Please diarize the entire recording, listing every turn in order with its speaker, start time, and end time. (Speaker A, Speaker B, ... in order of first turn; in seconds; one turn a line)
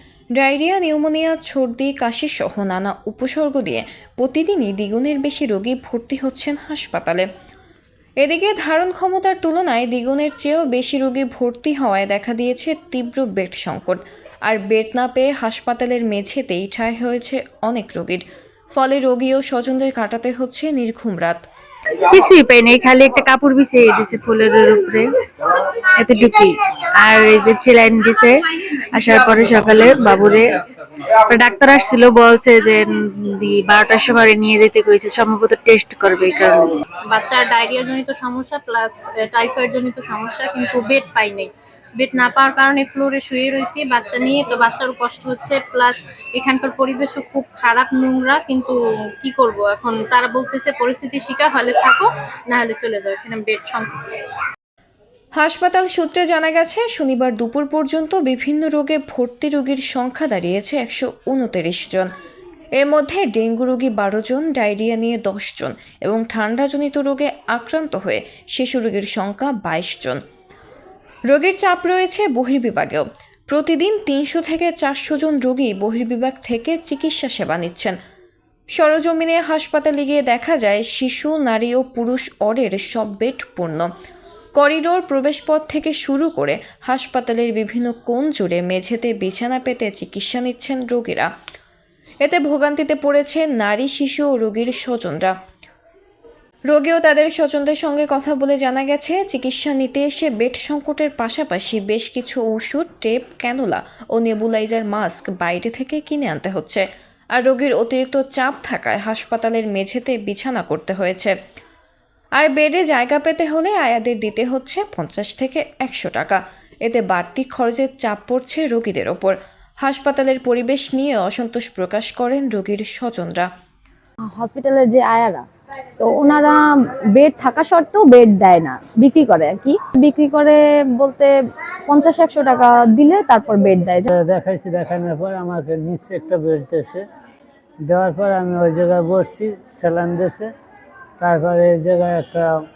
Speaker A: 0.4-7.3
Speaker A: 8.2-21.4
Speaker B: 22.1-25.0
Speaker B: 26.1-26.5
Speaker B: 27.0-28.4
Speaker B: 29.0-30.4
Speaker B: 31.3-36.6
Speaker C: 37.1-54.2
Speaker A: 55.4-62.1
Speaker A: 62.8-70.2
Speaker A: 71.3-78.0
Speaker A: 78.8-83.9
Speaker A: 84.6-91.3
Speaker A: 92.2-95.3
Speaker A: 96.7-106.8
Speaker A: 107.3-111.3
Speaker A: 112.4-123.5
Speaker D: 127.5-130.4
Speaker D: 132.0-132.4
Speaker D: 133.1-134.0
Speaker E: 134.1-137.0
Speaker E: 137.9-140.5
Speaker E: 141.2-142.5